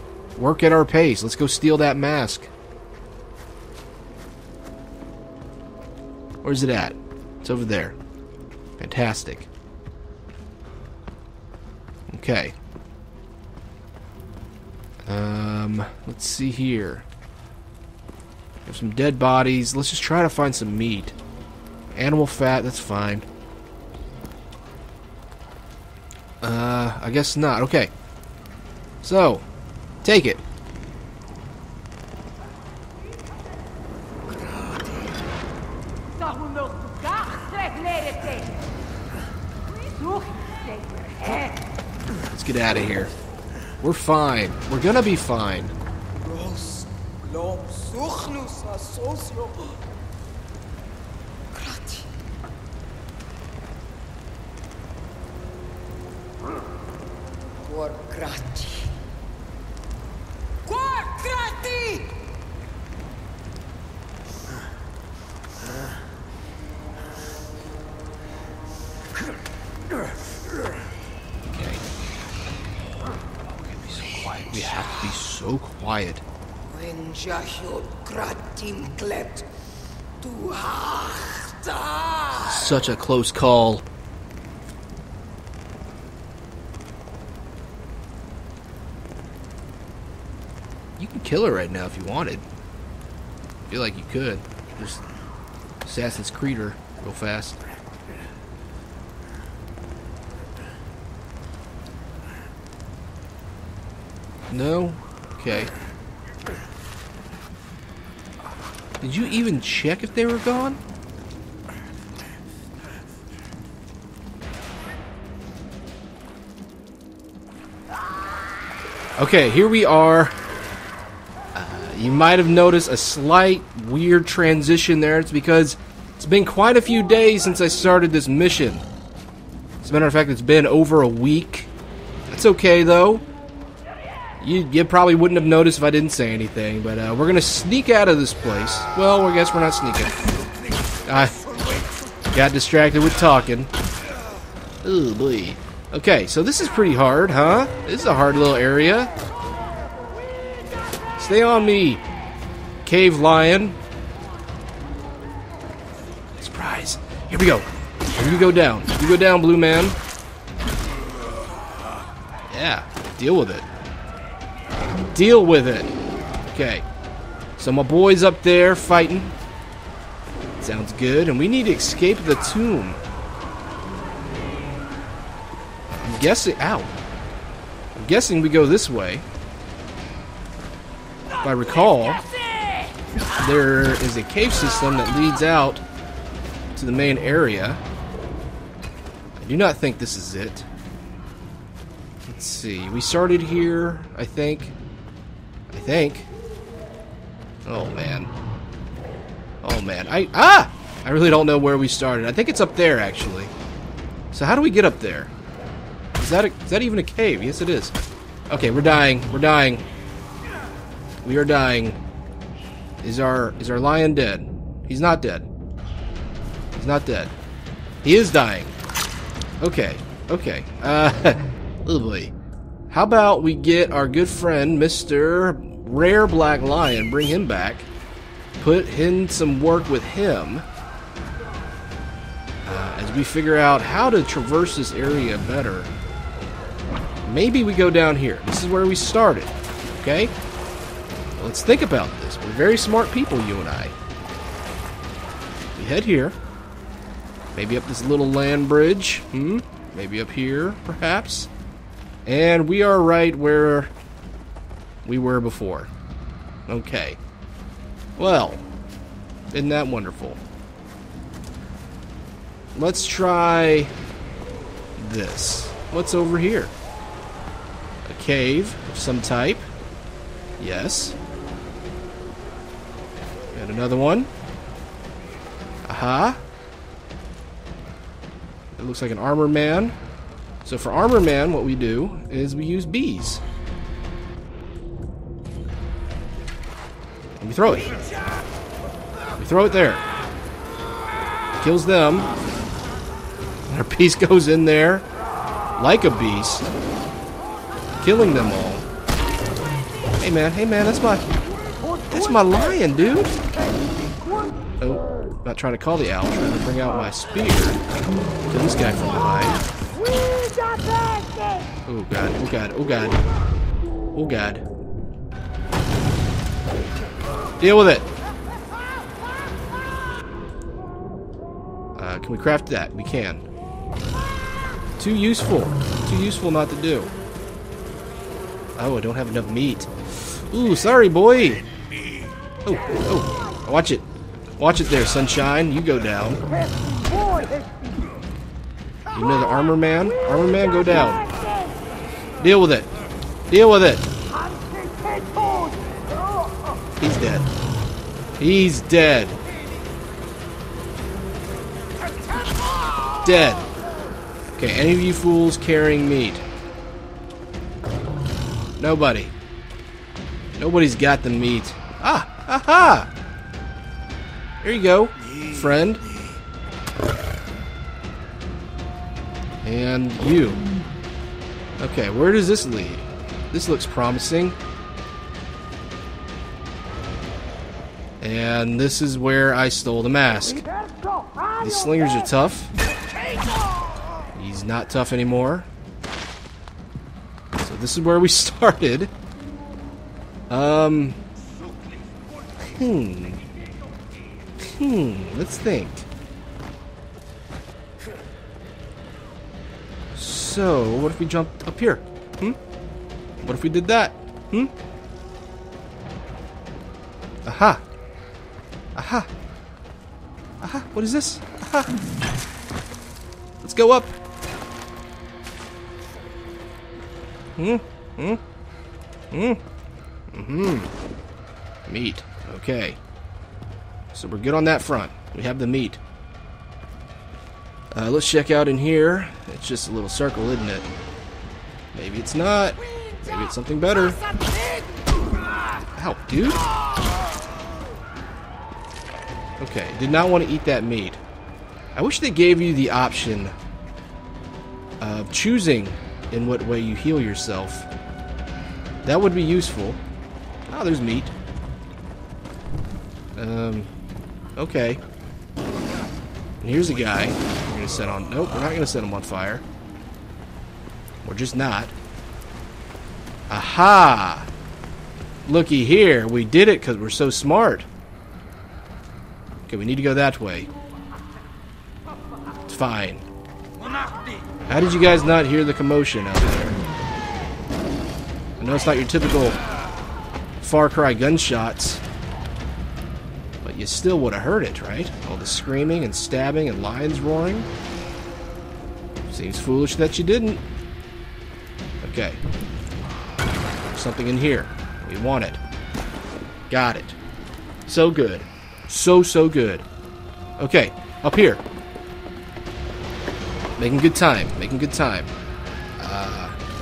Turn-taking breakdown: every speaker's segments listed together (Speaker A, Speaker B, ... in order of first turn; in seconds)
Speaker A: 0.4-2.5, 6.4-8.0, 8.8-9.5, 12.1-12.6, 15.1-17.1, 18.6-21.1, 21.9-23.3, 26.4-27.9, 29.0-29.4, 30.0-30.4, 42.3-43.1, 43.8-45.7, 71.5-71.8, 73.7-76.2, 82.4-83.8, 91.0-92.4, 93.7-95.0, 95.8-97.6, 104.5-105.7, 109.0-110.8, 119.2-120.4, 121.5-128.9, 129.8-131.7, 132.3-133.2, 134.4-140.2, 141.1-141.4, 142.3-143.7, 144.8-149.1, 151.2-152.0, 152.8-153.8, 156.4-160.0, 162.5-163.7, 165.1-165.9, 166.5-166.9, 167.6-169.3, 170.6-173.0, 175.9-176.9, 177.9-179.2, 181.4-182.2, 183.4-185.8, 186.7-187.8, 189.4-190.7, 192.3-194.8, 195.7-196.3, 197.6-198.3, 199.6-203.5, 204.3-205.3, 206.2-207.9, 208.5-209.8, 211.2-212.0, 213.0-215.5, 216.7-217.3, 218.0-218.8, 219.6-222.3, 222.9-227.9, 228.6-230.6, 232.6-235.9, 237.2-240.3, 241.4-243.9, 245.8-246.4, 247.6-251.5, 252.3-253.9, 255.1-255.9, 256.7-257.2, 258.2-258.6, 259.5-260.4, 262.7-263.9, 265.0-266.7, 268.1-269.7, 270.6-271.1, 273.5-274.3, 275.8-276.4, 278.7-279.9, 280.6-283.4, 287.4-288.0, 289.4-290.0, 291.6-292.3, 293.7-295.1, 295.8-296.7, 298.0-298.9, 300.2-301.3, 302.1-303.3, 304.8-307.8, 308.5-309.6, 311.9-313.2, 314.1-314.6, 317.6-318.1, 321.9-323.4, 325.0-327.1, 328.8-329.9, 330.5-331.6, 332.6-334.1, 334.6-336.4, 339.1-341.3, 342.4-342.9, 343.5-344.1, 347.0-347.5, 348.4-349.4, 353.2-353.7, 354.6-356.4, 358.8-359.3, 360.5-363.1, 364.6-366.0, 369.6-370.6, 371.8-374.6, 378.2-380.6, 381.6-382.7, 384.3-385.7, 387.6-389.1, 390.5-391.2, 392.6-393.4, 394.6-396.1, 400.1-402.6, 403.4-404.7, 407.4-407.8, 408.9-409.3, 410.6-411.9, 413.6-414.1, 417.6-418.4, 419.3-419.6, 420.3-420.9, 421.9-423.0, 424.1-426.0, 427.9-430.9, 431.9-434.2, 435.9-436.6, 439.6-441.2, 441.9-443.5, 445.0-447.9, 449.0-450.0, 450.7-451.3, 453.4-453.9, 454.6-455.0, 456.6-459.6, 461.2-461.9, 463.5-464.5, 465.4-467.9, 469.7-470.7, 472.7-473.3, 474.7-476.8, 478.6-479.6, 480.6-482.0, 483.6-487.7, 489.3-490.6, 492.0-492.4, 493.9-495.6, 496.7-497.2, 497.9-499.8, 500.6-501.6, 503.8-505.3, 506.0-506.6
Speaker B: 34.3-35.0, 36.1-38.7, 39.6-41.6, 46.2-49.7, 51.5-52.1, 57.6-58.9, 60.6-62.2, 76.7-79.5, 80.2-82.4, 141.5-141.9, 310.0-311.6, 344.6-345.8, 352.5-353.1, 365.3-366.4, 391.7-392.0, 434.2-435.0